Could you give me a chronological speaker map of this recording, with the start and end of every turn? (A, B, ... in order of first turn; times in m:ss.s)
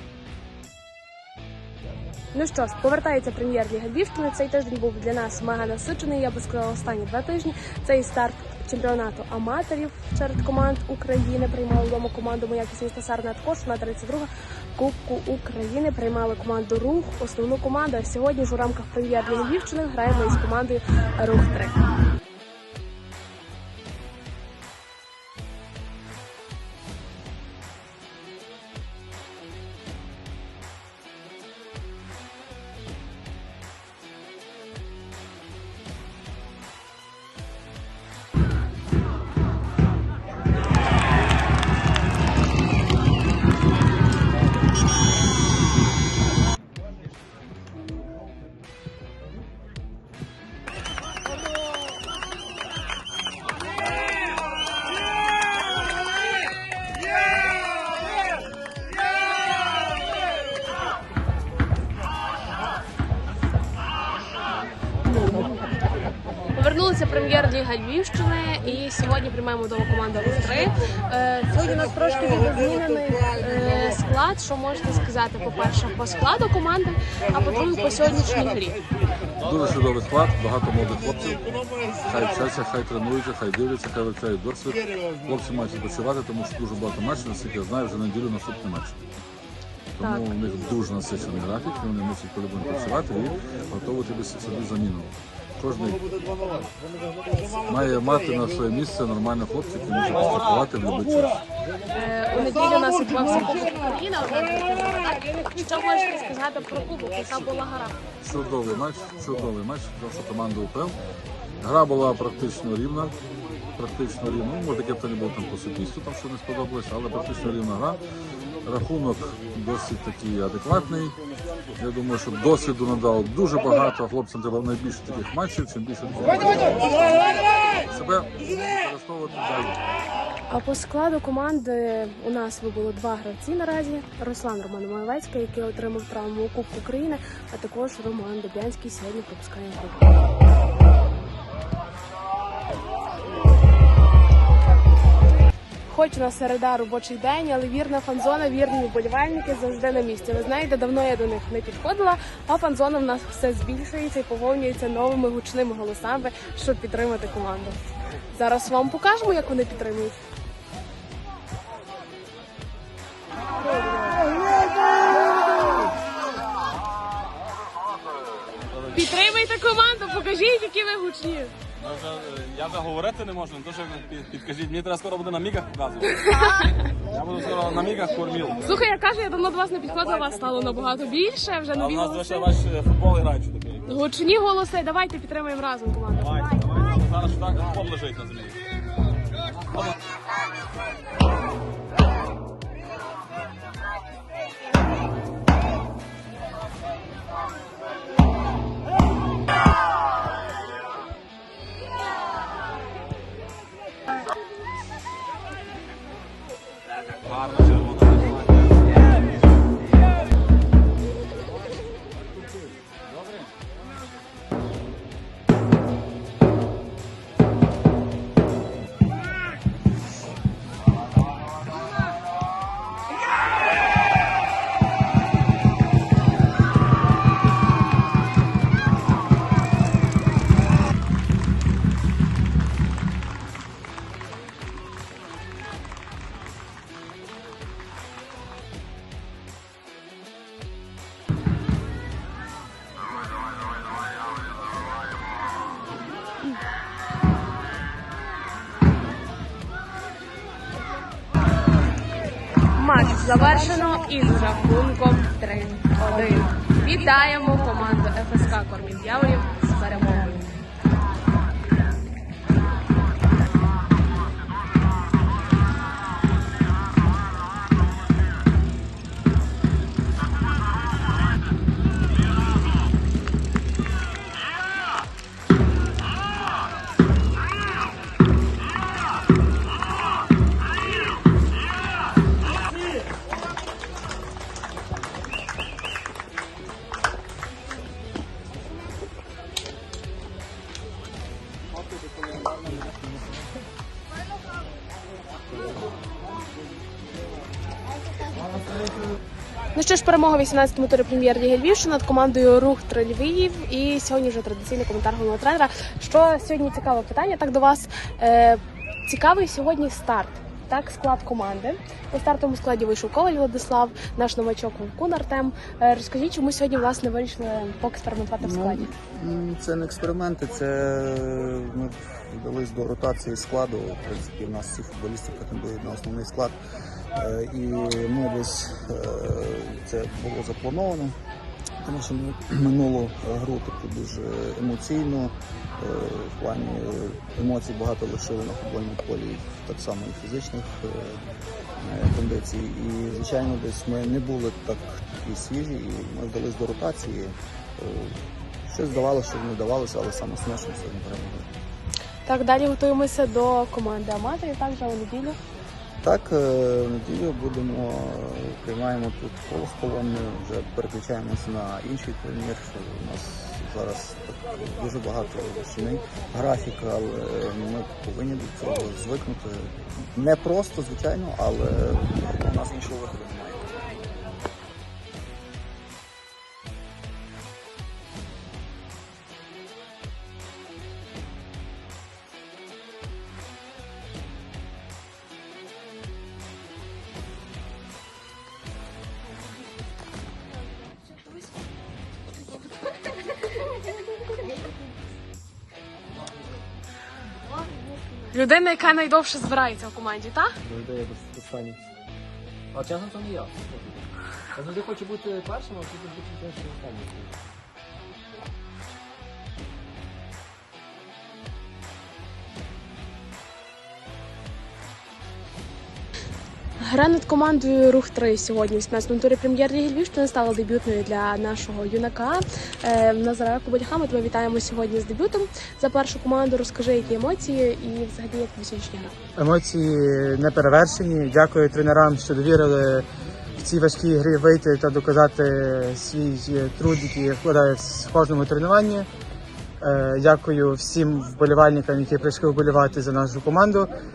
0:02.3-0:21.8 A
1:06.5-1:18.8 A
1:19.4-1:29.1 B
1:30.0-1:36.1 B
1:30.0-1:30.2 A
1:37.6-1:41.4 B
1:41.9-1:48.0 A
1:48.2-1:51.0 B
1:51.6-1:53.2 B
1:53.8-1:58.0 B
1:58.6-2:01.2 B
2:01.8-2:09.8 B
2:10.5-2:20.2 A
2:25.9-2:40.2 A
2:43.8-2:44.1 A
2:48.9-2:51.5 A
2:51.8-2:56.1 C
2:56.2-2:56.8 A
2:57.1-2:58.5 C
2:58.6-3:02.6 A
3:01.7-3:03.9 C
3:03.9-3:06.6 A
3:06.2-3:08.6 C
3:27.3-3:28.4 C
4:12.7-4:20.6 A
4:59.7-5:18.9 A
5:18.4-5:26.6 D
5:27.1-5:31.2 D
5:31.8-5:41.2 D
5:41.8-5:51.5 D
5:52.2-5:55.4 A
5:56.0-6:13.8 D
6:38.3-6:40.5 A
6:40.6-6:41.8 E
6:42.7-6:44.0 E
6:44.6-6:47.4 E
6:56.8-7:09.1 A
7:09.4-7:13.1 F
7:13.6-7:19.1 F
7:19.8-7:23.9 F